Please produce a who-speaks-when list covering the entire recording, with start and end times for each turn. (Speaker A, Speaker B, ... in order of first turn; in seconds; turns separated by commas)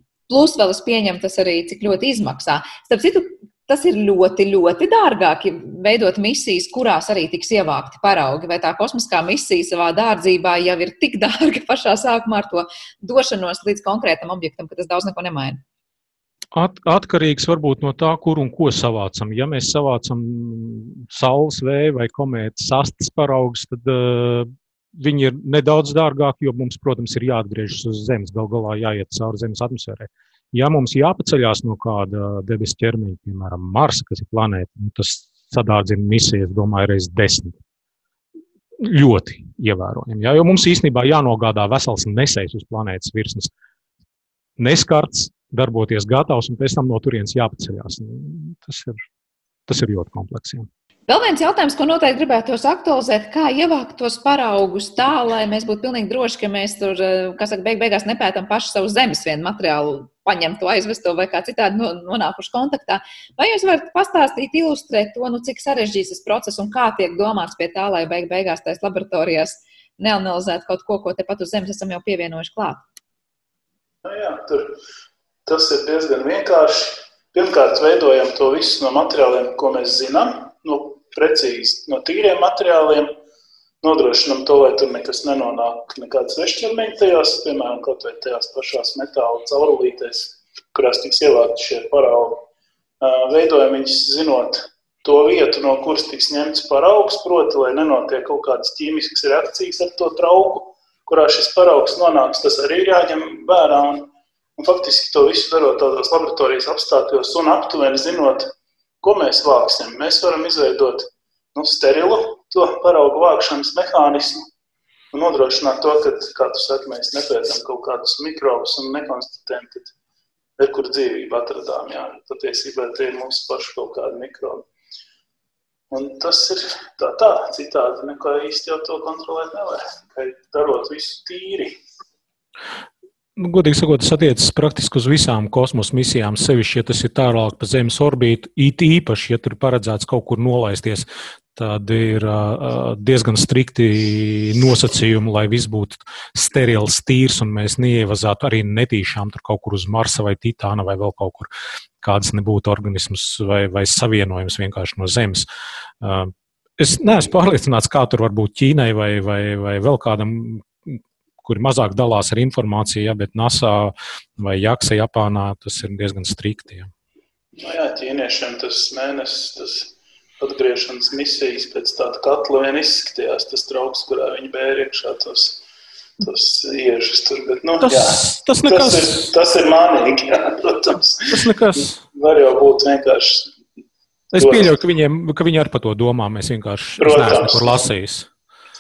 Speaker A: 0.3-15.6, Speaker B: 16.5-37.6, Speaker B: 38.8-43.5, Speaker B: 44.6-49.0, Speaker B: 49.7-50.7, Speaker A: 51.1-72.8, Speaker C: 74.0-74.8, Speaker C: 75.5-83.2, Speaker C: 83.8-92.4, Speaker C: 93.0-114.5, Speaker C: 115.1-119.9, Speaker C: 120.6-124.7, Speaker C: 125.9-131.8, Speaker B: 133.4-151.5, Speaker B: 152.0-155.4, Speaker B: 156.0-166.9, Speaker C: 167.6-175.6, Speaker C: 176.2-181.4, Speaker B: 177.8-179.3, Speaker B: 181.3-182.0, Speaker C: 182.1-183.5, Speaker B: 184.3-188.3, Speaker C: 184.4-184.7, Speaker C: 187.0-187.8